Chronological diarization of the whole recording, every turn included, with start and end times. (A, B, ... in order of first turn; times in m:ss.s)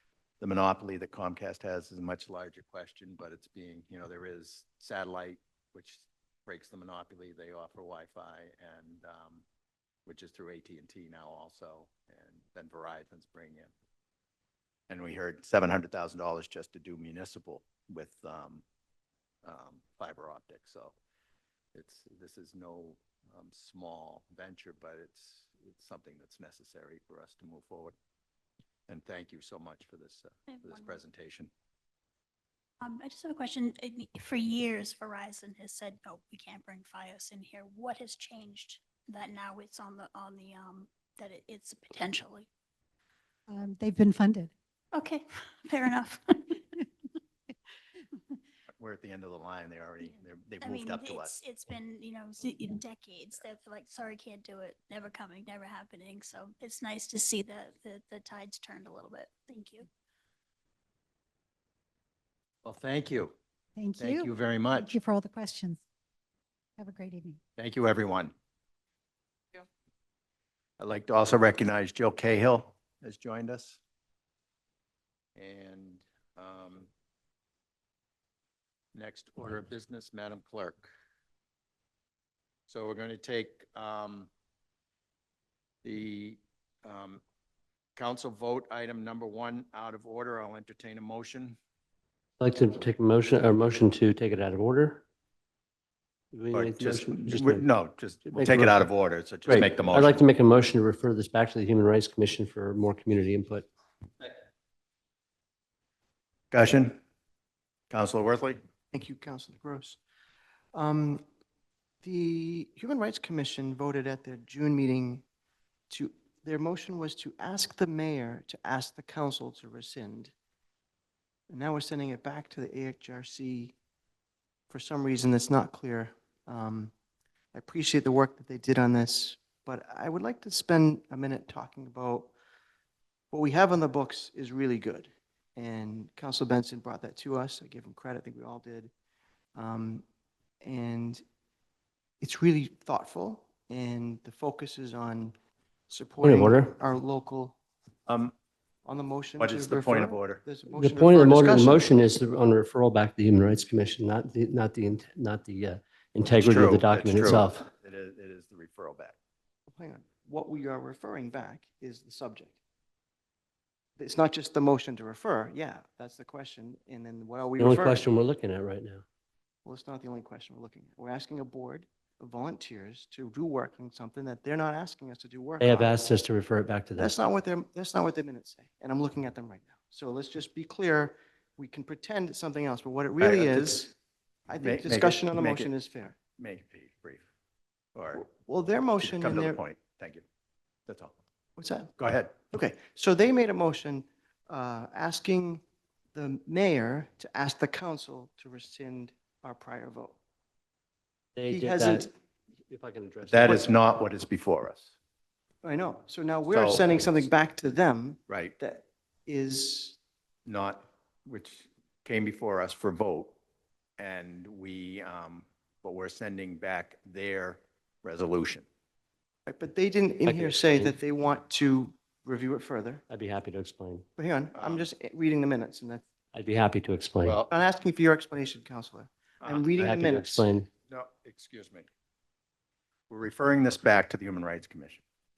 0:00.4-0:09.4 A
0:10.0-0:13.7 A
0:14.9-0:18.6 A
0:19.4-0:20.9 A
0:21.7-0:27.9 A
0:28.9-0:31.5 A
0:30.5-0:31.0 B
0:32.8-0:42.5 B
0:43.5-0:44.5 C
0:44.9-0:46.6 B
0:48.8-0:51.4 A
0:50.6-0:59.9 B
1:02.6-1:03.3 A
1:03.8-1:05.8 C
1:04.0-1:04.9 A
1:06.8-1:07.4 C
1:07.6-1:08.3 A
1:10.8-1:13.8 A
1:15.4-1:16.9 A
1:18.9-1:20.9 A
1:22.7-1:24.3 A
1:25.8-1:27.2 A
1:28.0-1:31.6 A
1:32.4-1:35.0 D
1:36.3-1:37.7 D
1:36.5-1:40.2 A
1:38.3-1:38.8 D
1:39.4-1:43.7 D
1:46.5-1:47.0 A
1:47.9-1:48.6 A
1:48.9-1:50.0 E
1:50.7-1:51.2 E
1:52.0-1:55.2 E
1:55.9-2:00.3 E
2:01.5-2:03.7 E
2:04.7-2:06.9 E
2:07.5-2:12.3 E
2:13.3-2:18.9 E
2:19.5-2:20.0 E
2:20.6-2:21.2 E
2:22.2-2:25.3 E
2:25.9-2:27.5 E
2:26.2-2:26.7 D
2:28.1-2:28.3 A
2:28.8-2:31.8 E
2:29.4-2:30.4 A
2:30.7-2:37.7 D
2:36.4-2:39.2 A
2:39.7-2:42.6 E
2:44.0-2:48.0 E
2:47.6-2:49.0 D
2:49.6-2:55.9 E
2:55.6-2:57.1 D
2:57.0-3:03.9 E
3:03.2-3:03.7 A
3:04.5-3:06.2 E
3:04.6-3:05.7 A
3:06.4-3:07.2 A
3:07.9-3:08.2 A
3:08.1-3:09.6 E
3:09.0-3:10.2 A
3:10.9-3:11.1 A
3:11.6-3:11.9 E
3:12.0-3:12.4 A
3:12.5-3:15.6 E
3:16.1-3:20.2 E
3:21.3-3:22.1 D
3:21.5-3:22.1 E
3:22.7-3:23.6 D
3:23.3-3:24.9 A
3:25.6-3:30.0 E
3:26.5-3:27.0 A
3:28.3-3:28.5 A
3:30.4-3:33.3 A
3:34.0-3:38.6 A
3:39.4-3:43.0 E
3:40.2-3:41.0 D
3:43.1-3:44.0 D
3:44.2-3:46.0 E
3:44.5-3:44.9 A
3:46.3-3:47.4 D
3:47.2-3:47.5 A
3:47.5-3:50.4 E
3:49.7-3:50.7 D
3:50.9-3:51.9 A
3:53.1-3:55.0 A